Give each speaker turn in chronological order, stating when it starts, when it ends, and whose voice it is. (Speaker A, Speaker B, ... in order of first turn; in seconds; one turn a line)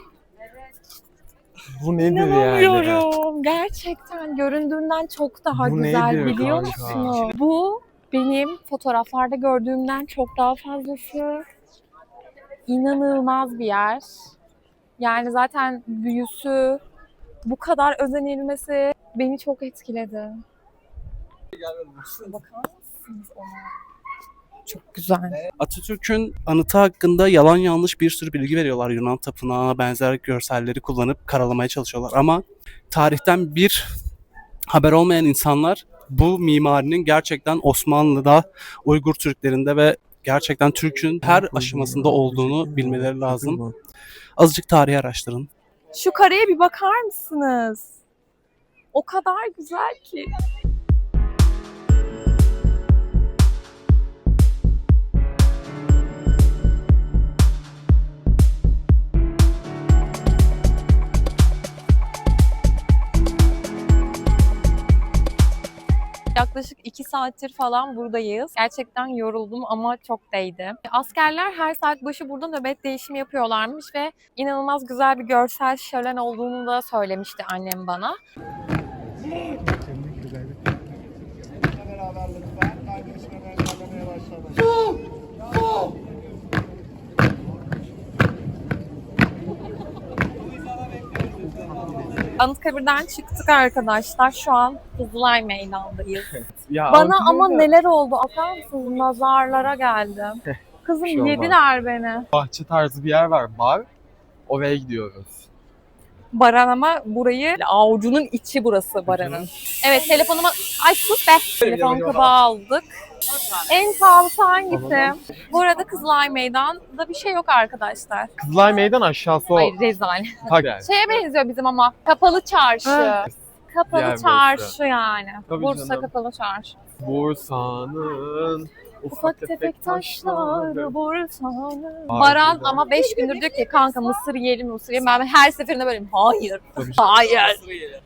Speaker A: 1.7-3.1
Speaker B: 2.0-11.4
Speaker A: 5.5-7.3
Speaker C: 6.5-7.0
Speaker B: 12.7-14.3
Speaker B: 15.0-16.8
Speaker B: 17.4-20.4
Speaker B: 22.1-23.8
Speaker B: 24.6-25.4
Speaker C: 25.6-33.9
Speaker C: 34.7-43.6
Speaker A: 41.2-43.7
Speaker C: 44.4-45.5
Speaker B: 45.9-48.0
Speaker B: 48.9-50.3
Speaker B: 66.3-78.2
Speaker B: 92.4-96.3
Speaker A: 96.5-97.7
Speaker B: 96.9-102.3
Speaker A: 100.5-101.6
Speaker A: 102.3-103.9
Speaker A: 104.5-105.5
Speaker B: 106.3-112.9
Speaker A: 109.0-109.5
Speaker C: 111.6-112.3
Speaker B: 113.7-118.3
Speaker A: 114.7-115.2
Speaker A: 118.4-119.7
Speaker B: 119.5-126.8
Speaker A: 120.4-120.9
Speaker A: 122.8-123.4
Speaker A: 123.9-124.8
Speaker A: 125.5-126.1
Speaker A: 127.0-131.0
Speaker B: 129.1-137.7
Speaker A: 132.1-132.9
Speaker A: 136.8-137.2